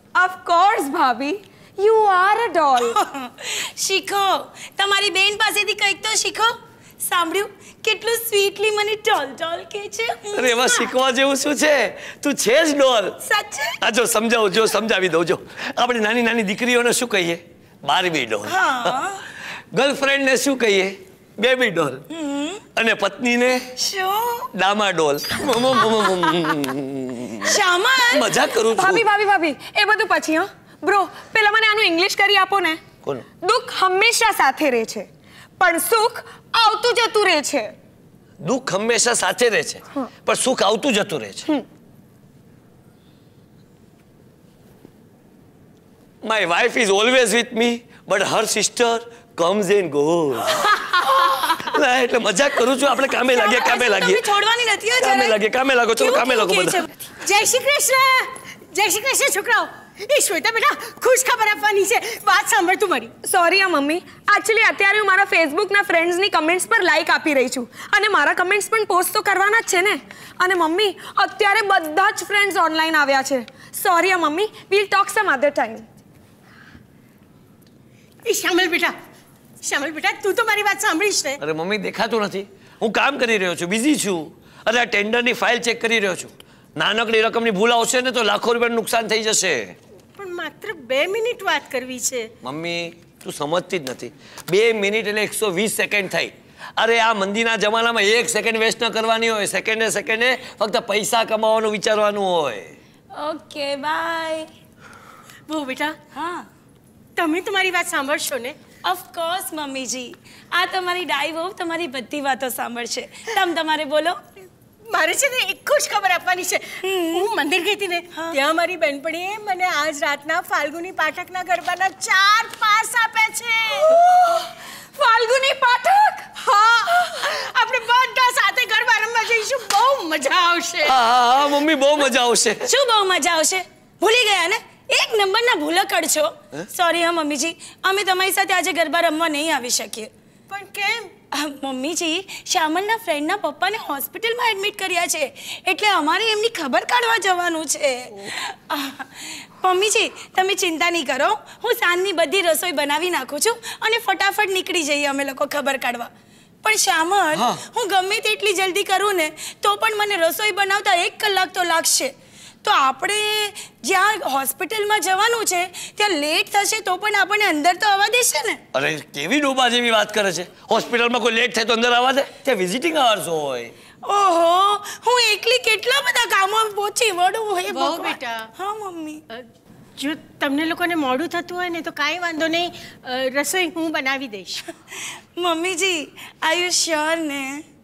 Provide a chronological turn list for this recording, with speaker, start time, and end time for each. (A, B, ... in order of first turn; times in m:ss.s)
0:00.2-0:03.0 A
0:02.8-0:10.8 B
0:10.3-0:13.2 C
0:13.2-0:13.8 B
0:13.8-0:19.0 C
0:18.5-0:19.2 B
0:19.7-0:22.0 C
0:22.1-0:22.6 B
0:22.8-0:23.7 C
0:23.8-0:24.5 B
0:24.5-0:27.6 C
0:27.5-0:28.3 B
0:28.1-0:29.1 C
0:28.7-0:32.8 A
0:33.4-0:35.1 A
0:35.6-0:37.7 A
0:38.4-0:41.5 C
0:46.2-0:50.8 C
0:51.0-0:51.6 B
0:51.6-0:54.2 C
0:53.3-0:55.4 B
0:55.0-0:56.8 C
0:56.0-0:57.0 B
0:57.2-1:03.1 D
1:03.2-1:15.8 A
1:18.2-1:18.9 D
1:19.6-1:21.4 D
1:21.4-1:29.8 C
1:30.2-1:32.3 D
1:32.4-1:42.8 C
1:43.1-1:44.5 B
1:45.5-1:46.0 D
1:46.1-1:46.5 B
1:47.2-1:48.6 D
1:48.8-1:54.2 B
1:54.9-2:04.0 D
1:56.8-1:57.3 B
1:58.1-1:58.4 B
2:05.0-2:06.3 A
2:06.3-2:11.0 D
2:10.8-2:12.7 C
2:12.7-2:20.1 B
2:20.5-2:21.1 D
2:21.3-2:36.1 B
2:36.6-2:48.6 B
2:37.4-2:37.6 C
2:48.7-2:53.7 C
2:54.0-2:59.2 B
2:57.7-2:58.5 D
3:00.0-3:04.6 D
3:05.4-3:07.6 B